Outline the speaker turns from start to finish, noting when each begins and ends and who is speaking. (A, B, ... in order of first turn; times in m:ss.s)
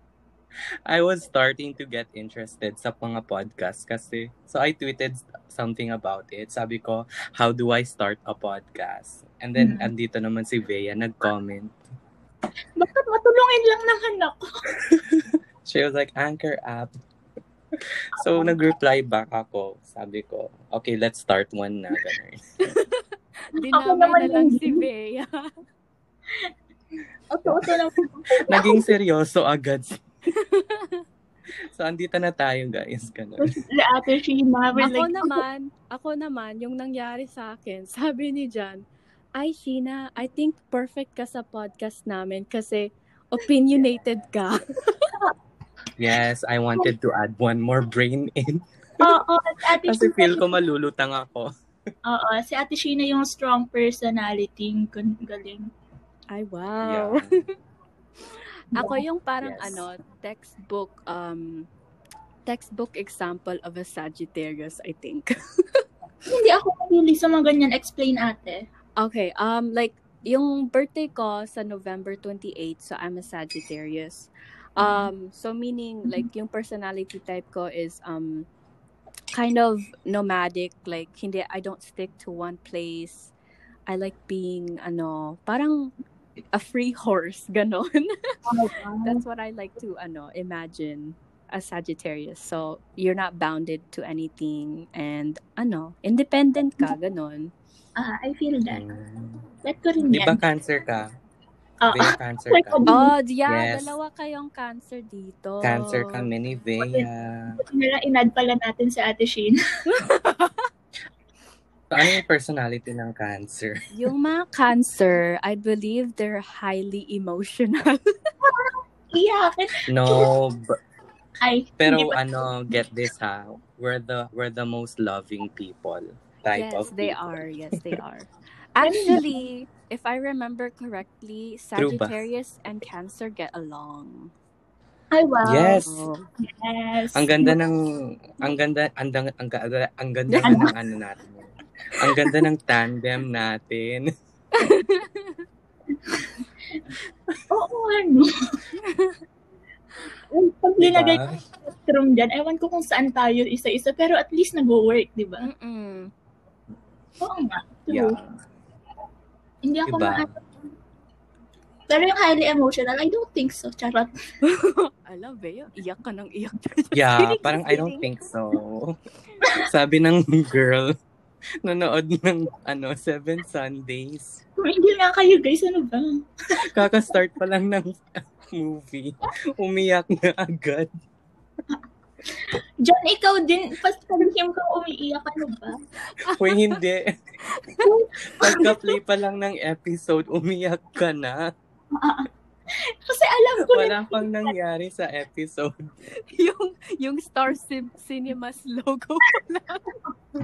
0:00.9-0:11.7 A
0:09.6-0:09.9 B
0:12.8-0:14.4 B
0:14.8-0:16.9 A
0:17.8-0:22.4 A
0:18.2-0:18.5 B
0:22.6-0:25.5 C
0:23.7-0:24.8 B
0:27.3-0:28.9 B
0:27.4-0:27.8 A
0:28.4-0:30.0 A
0:30.3-0:31.0 C
0:31.7-0:33.6 A
0:33.4-0:35.4 B
0:34.8-0:38.8 C
0:39.4-0:45.1 C
0:46.0-0:49.2 A
0:49.0-0:50.5 B
0:49.8-0:51.5 A
0:52.0-0:55.7 B
0:56.3-0:57.5 C
0:56.8-0:57.4 A
0:58.7-1:01.7 C
0:59.4-0:59.8 A
1:02.4-1:05.8 C
1:06.3-1:08.7 B
1:09.0-1:18.5 C
1:14.8-1:15.1 B
1:19.3-1:23.3 C
1:23.9-1:25.9 C
1:26.5-1:28.4 C
1:28.5-1:29.2 B
1:29.0-1:37.5 C
1:38.0-1:38.8 B
1:38.7-1:39.4 A
1:39.6-1:40.4 B
1:40.0-1:41.1 A
1:41.8-1:43.1 B
1:41.9-1:42.9 A
1:42.9-1:46.3 C
1:43.4-1:43.9 A
1:45.6-1:47.6 A
1:46.8-1:47.1 B
1:47.6-1:49.6 B
1:49.9-1:50.7 C
1:51.9-1:53.8 A
1:53.9-1:58.0 C
1:58.4-2:00.3 B
1:59.9-2:00.8 A
2:01.4-2:02.2 B
2:01.8-2:08.0 A
2:06.5-2:14.3 C
2:08.8-2:09.3 B
2:11.8-2:12.2 A
2:15.1-2:15.8 B
2:15.4-2:16.0 A
2:15.8-2:16.2 C
2:16.4-2:17.6 B
2:17.1-2:24.1 A
2:20.3-2:20.7 C
2:20.4-2:20.8 B
2:24.5-2:25.4 C
2:26.1-2:26.8 B
2:27.5-2:28.3 B
2:28.8-2:29.2 C
2:30.3-2:35.4 B
2:30.8-2:31.3 A
2:35.4-2:36.1 C
2:37.2-2:38.2 B
2:37.9-2:38.3 A
2:39.6-2:40.3 B
2:39.8-2:40.3 A
2:41.9-2:44.1 B
2:44.4-2:48.2 C
2:46.9-2:49.0 A
2:49.6-2:50.9 A
2:51.6-2:54.4 A
2:54.6-2:56.7 B
2:56.6-3:00.9 A
3:02.3-3:05.8 B
3:06.1-3:06.7 C
3:06.3-3:07.2 A
3:07.5-3:07.9 C
3:07.8-3:08.8 B
3:08.4-3:11.5 A
3:11.9-3:14.5 B
3:13.6-3:15.7 A
3:16.3-3:19.8 C